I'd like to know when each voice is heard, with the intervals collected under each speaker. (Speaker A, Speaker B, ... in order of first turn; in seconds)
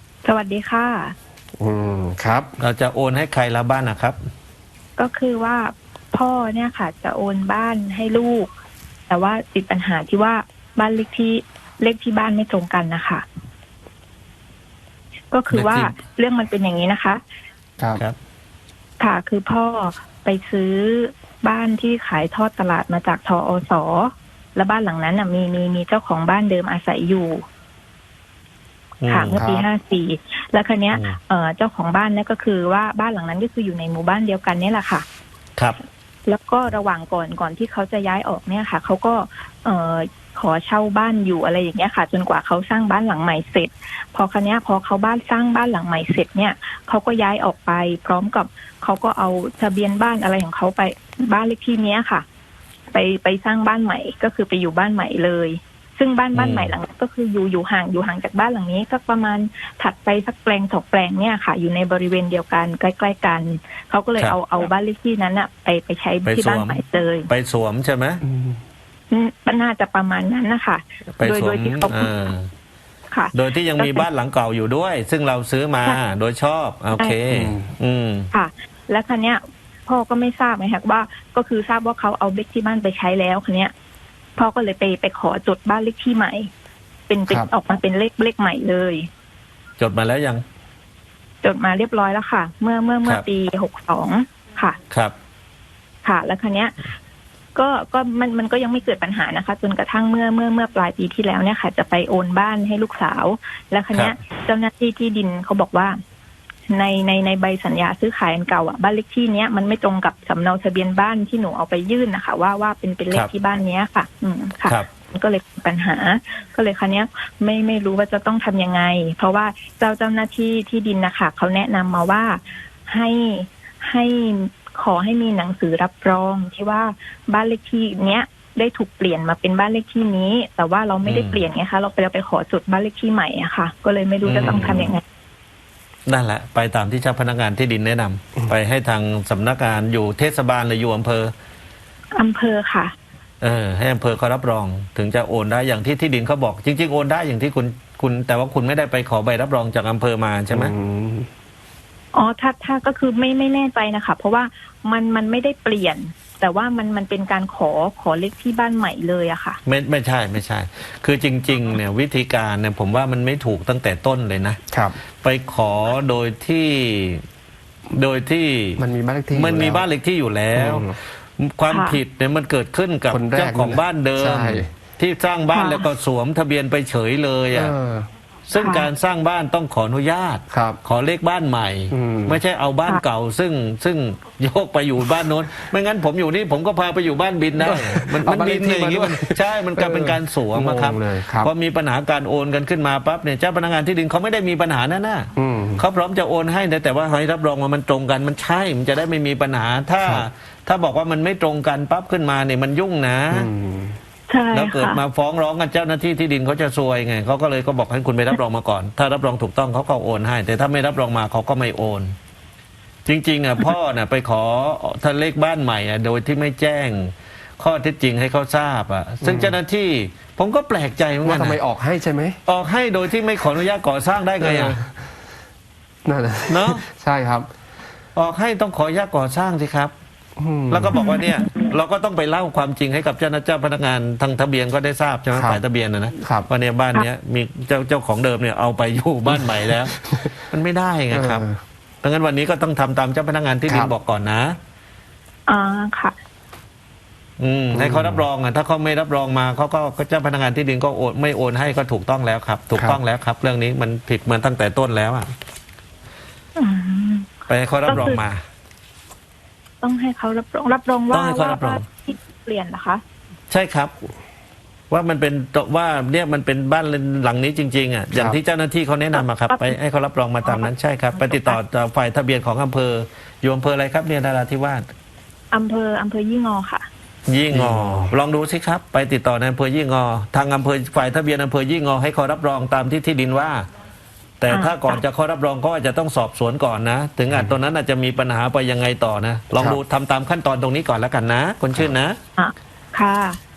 Speaker A: 0.2-1.1, 5.0-8.5, 9.1-13.2, 15.3-17.2, 19.0-27.4, 29.1-35.0, 36.3-52.2, 52.9-67.3, 69.1-72.2, 73.1-74.1, 78.3-83.7, 84.4-86.5, 87.1-89.1, 91.4-94.8, 96.0-96.9, 97.5-106.0, 106.7-135.0, 142.2-142.9, 152.1-159.6, 171.7-172.0, 175.5-175.9, 178.6-178.9, 204.3-205.0, 230.9-231.7, 245.5-246.2, 256.6-257.3, 257.9-258.2, 259.8-263.0, 269.1-269.8, 270.4-271.6, 275.5-276.9, 284.5-285.0, 292.4-293.4
Speaker B: 1.6-2.5, 29.4-29.7, 68.2-68.6, 77.3-77.7, 134.4-134.8, 150.5-151.3, 164.7-165.0, 168.8-169.9, 170.6-171.0, 173.1-174.7, 177.5-178.1, 180.5-180.8, 181.9-182.4, 187.6-191.5, 195.4-195.8, 203.3-204.0, 219.2-219.6, 221.2-222.4, 224.4-225.2, 226.1-227.5, 230.4-231.0, 235.3-235.6, 236.2-236.5, 239.3-240.4, 241.1-241.6, 243.7-243.9, 247.7-248.3, 252.8-253.0, 277.5-278.1, 287.3-287.6, 289.6-289.8
Speaker C: 2.6-4.2, 15.5-15.9, 29.0-29.4, 56.3-56.8, 66.2-68.2, 71.2-72.5, 73.3-78.3, 89.8-90.4, 131.1-131.4, 134.2-134.9, 136.1-141.3, 143.4-150.7, 159.7-164.6, 165.2-167.2, 167.9-177.8, 178.5-203.5, 204.5-212.2, 213.1-221.6, 222.5-224.8, 226.5-226.8, 228.2-229.9, 230.7-241.4, 242.0-244.6, 247.4-255.3, 257.5-258.4, 261.1-261.8, 263.5-263.9, 264.9-274.8, 277.3-283.7, 284.4-292.2